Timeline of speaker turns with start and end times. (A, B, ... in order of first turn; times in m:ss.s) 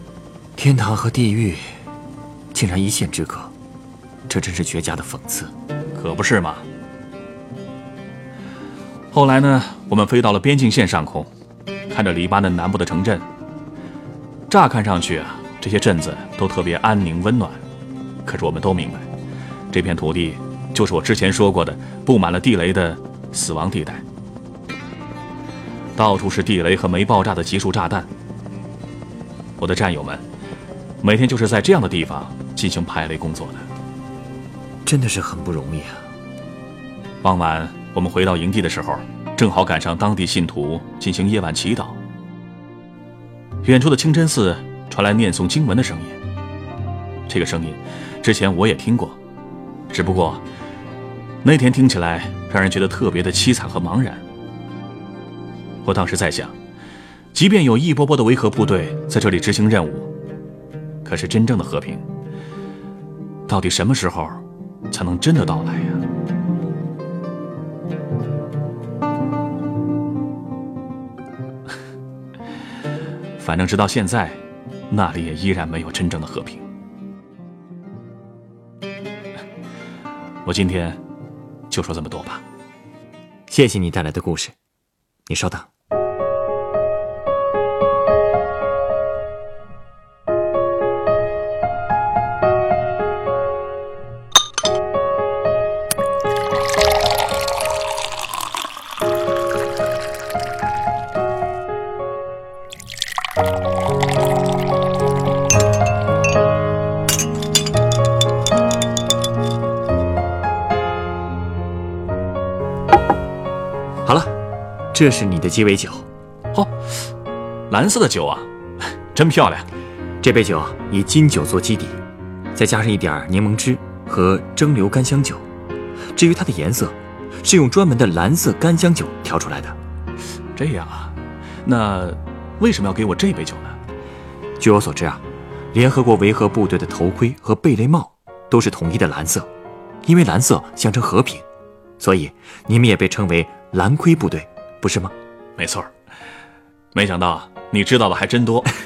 0:00.6-0:01.8 A
0:02.5-0:03.5 A
0:04.3-0:05.5 A
0:06.0-0:06.6 B
0:09.1-0:11.3 B
0:11.9-0:13.3 B
0:14.5-0:17.6 B
0:18.2-0:19.1 B
0:19.7-0:24.0 B
0:26.0-0:28.1 B
0:29.6-0:30.2 B
0:31.0-0:33.7 B
0:34.8-0:36.1 A
0:37.2-0:42.0 B
0:43.6-0:46.2 B
0:47.3-0:49.2 B
0:49.9-0:50.4 B
0:51.4-0:54.2 B
0:55.8-0:56.6 B
0:57.3-1:00.1 B
1:01.0-1:02.0 B
1:03.5-1:06.0 B
1:13.4-1:16.6 B
1:20.4-1:21.0 B
1:21.7-1:22.4 B
1:23.5-1:24.6 A
1:25.3-1:25.7 A
1:54.0-1:54.3 A
1:54.9-1:56.1 A
1:57.7-1:58.5 B
1:59.1-1:59.7 B
2:00.2-2:02.0 A
2:02.5-2:05.5 A
2:06.1-2:09.8 A
2:10.6-2:13.8 B
2:14.6-2:19.5 A
2:20.0-2:21.4 A
2:22.0-2:25.1 A
2:25.6-2:25.9 B
2:26.9-2:28.7 B